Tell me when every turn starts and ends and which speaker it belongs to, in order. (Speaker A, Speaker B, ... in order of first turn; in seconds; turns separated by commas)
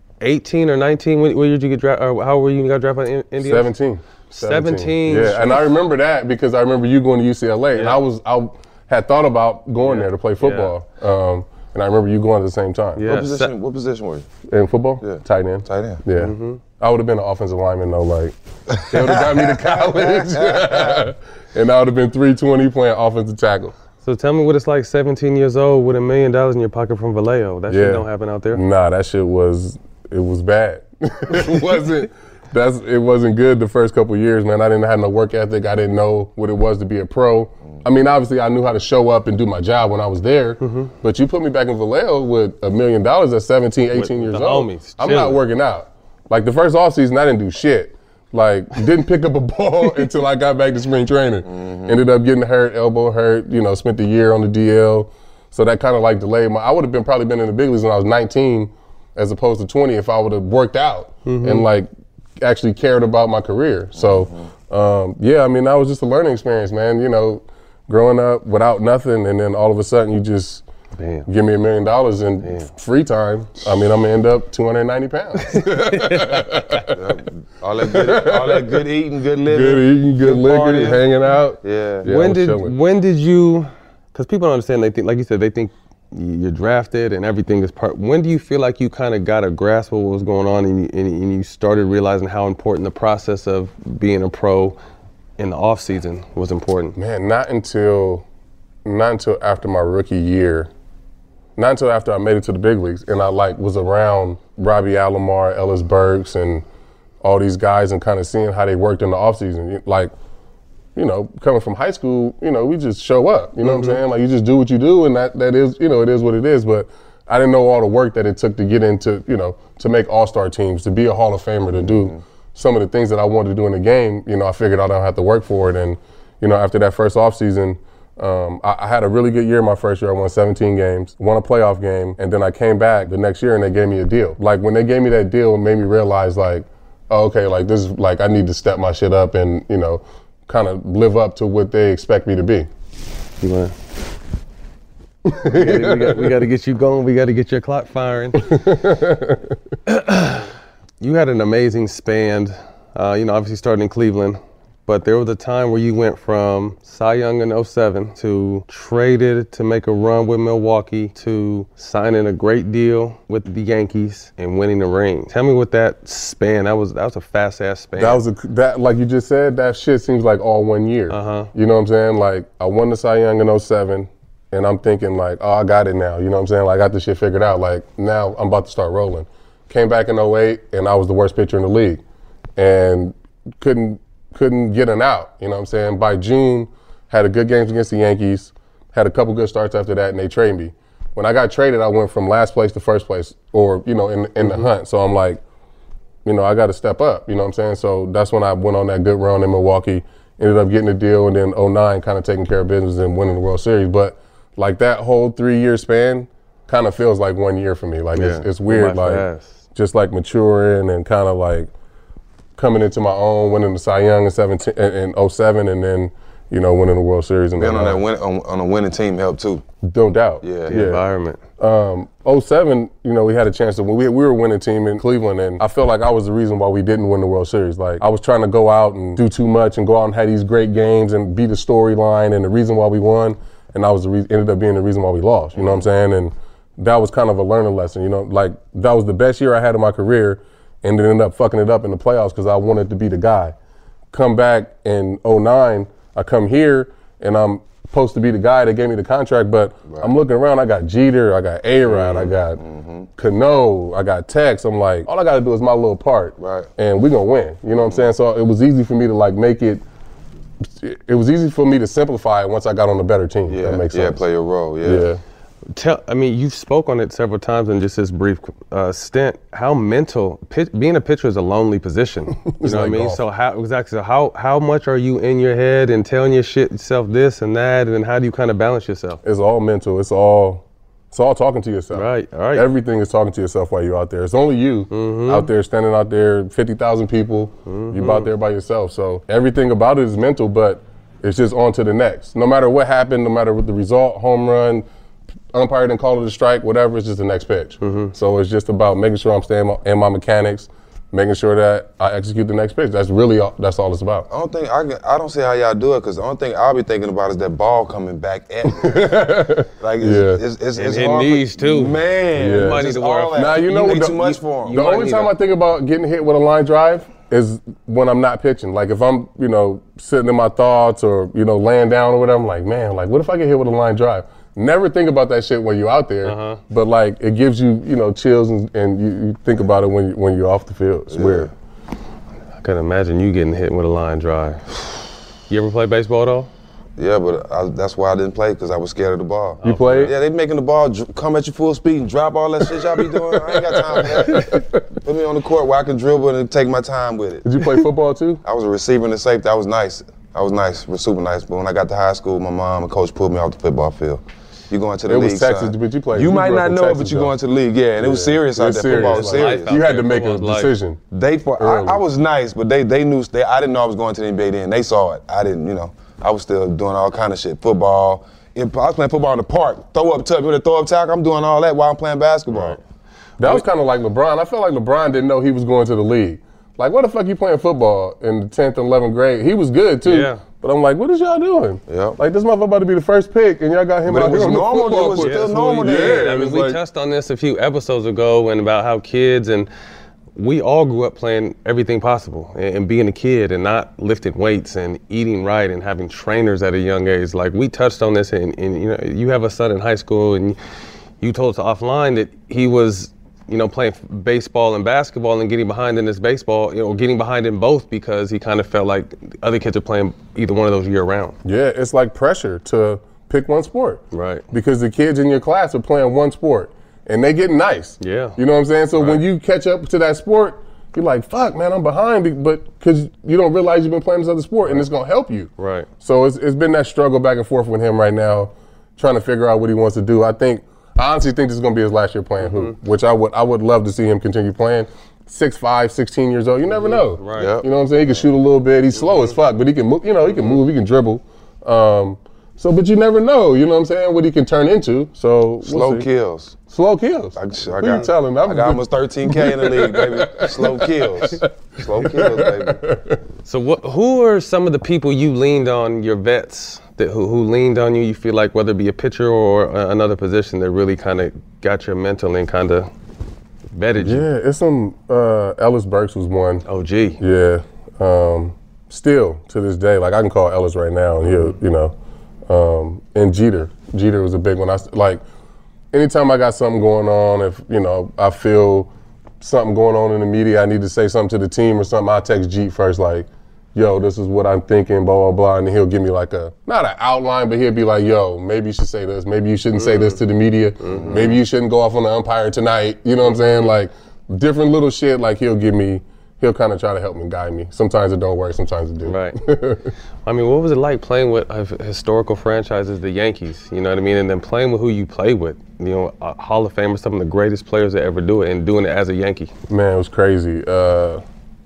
Speaker A: 0.2-3.7, Speaker B: 3.4-13.0, Speaker A: 4.3-5.7, Speaker A: 7.7-8.0, Speaker A: 9.8-10.7, Speaker A: 12.9-13.5, Speaker C: 13.0-14.3, Speaker B: 14.5-18.3, Speaker C: 15.0-16.0, Speaker A: 16.1-16.6, Speaker C: 18.7-21.0, Speaker B: 18.9-23.7, Speaker A: 24.0-28.6, Speaker B: 27.7-61.9, Speaker A: 40.6-40.9, Speaker A: 43.9-45.4, Speaker C: 51.4-52.0, Speaker A: 61.2-61.7, Speaker B: 62.4-70.6, Speaker C: 64.0-64.5, Speaker A: 71.0-71.3, Speaker B: 71.3-77.0, Speaker A: 72.4-72.7, Speaker A: 75.4-76.9, Speaker C: 76.9-81.1, Speaker B: 77.8-78.8, Speaker B: 79.5-82.7, Speaker C: 81.6-82.1, Speaker A: 82.0-94.8, Speaker A: 95.4-97.0, Speaker B: 97.0-98.2, Speaker B: 98.8-100.7, Speaker B: 101.5-106.6, Speaker B: 107.2-110.1, Speaker B: 111.0-142.7, Speaker A: 113.6-114.0, Speaker C: 121.7-122.2, Speaker A: 143.4-143.7, Speaker B: 145.2-146.3, Speaker A: 145.4-148.5, Speaker B: 148.4-149.5, Speaker A: 149.8-150.5, Speaker A: 151.0-168.2, Speaker B: 168.0-182.0, Speaker A: 171.1-171.5, Speaker B: 182.6-195.4, Speaker A: 194.4-194.7, Speaker B: 196.2-211.7, Speaker A: 208.2-209.6, Speaker B: 212.6-218.0, Speaker C: 217.6-219.6, Speaker B: 219.8-221.0, Speaker C: 220.4-220.7, Speaker A: 220.7-221.4, Speaker B: 221.6-243.5, Speaker B: 244.1-252.6, Speaker C: 249.9-250.1, Speaker A: 251.9-252.3, Speaker C: 252.6-253.1, Speaker B: 253.2-259.8, Speaker C: 256.4-256.7, Speaker C: 257.7-258.1, Speaker B: 260.8-264.2, Speaker C: 263.5-265.1, Speaker B: 264.8-265.2, Speaker A: 265.7-279.2, Speaker B: 272.5-273.2, Speaker B: 279.2-294.8, Speaker A: 281.9-282.6, Speaker A: 284.9-285.5, Speaker A: 287.6-288.3, Speaker B: 295.5-304.3, Speaker A: 297.8-298.1, Speaker C: 304.3-314.8, Speaker B: 308.7-310.4, Speaker A: 310.7-315.3, Speaker B: 312.4-312.8, Speaker B: 313.3-331.5, Speaker A: 326.2-326.6, Speaker C: 331.1-331.5, Speaker A: 332.6-336.5, Speaker C: 337.0-347.4, Speaker A: 339.6-340.1, Speaker B: 339.6-340.1, Speaker B: 343.4-344.8, Speaker B: 347.4-348.4, Speaker C: 348.4-359.8, Speaker B: 355.1-357.3, Speaker B: 358.0-361.0, Speaker A: 358.9-360.7, Speaker C: 361.1-372.8, Speaker B: 361.6-362.0, Speaker A: 372.5-372.8, Speaker B: 373.4-386.8, Speaker A: 380.0-380.4, Speaker C: 381.9-382.2, Speaker C: 384.0-386.3, Speaker A: 384.8-389.7, Speaker A: 390.4-400.6, Speaker A: 401.2-411.4, Speaker B: 411.4-425.5, Speaker A: 414.1-414.4, Speaker A: 418.0-418.4, Speaker A: 418.9-419.2, Speaker A: 425.6-425.9, Speaker B: 426.0-446.1, Speaker A: 432.4-432.7, Speaker A: 436.7-437.5, Speaker C: 437.4-437.7, Speaker A: 439.0-439.3, Speaker A: 440.3-440.6, Speaker C: 445.6-446.6, Speaker B: 446.7-451.5, Speaker C: 447.3-452.8, Speaker B: 452.0-453.2, Speaker A: 453.4-462.9, Speaker A: 463.7-464.2, Speaker B: 464.0-466.6, Speaker A: 466.6-467.2, Speaker B: 467.2-471.9, Speaker A: 471.3-471.6, Speaker B: 472.5-475.2, Speaker B: 475.9-499.9, Speaker A: 489.8-490.2, Speaker A: 490.8-491.2, Speaker C: 490.9-491.4, Speaker A: 493.2-493.7, Speaker A: 499.0-499.4, Speaker A: 500.2-509.5, Speaker B: 509.7-511.2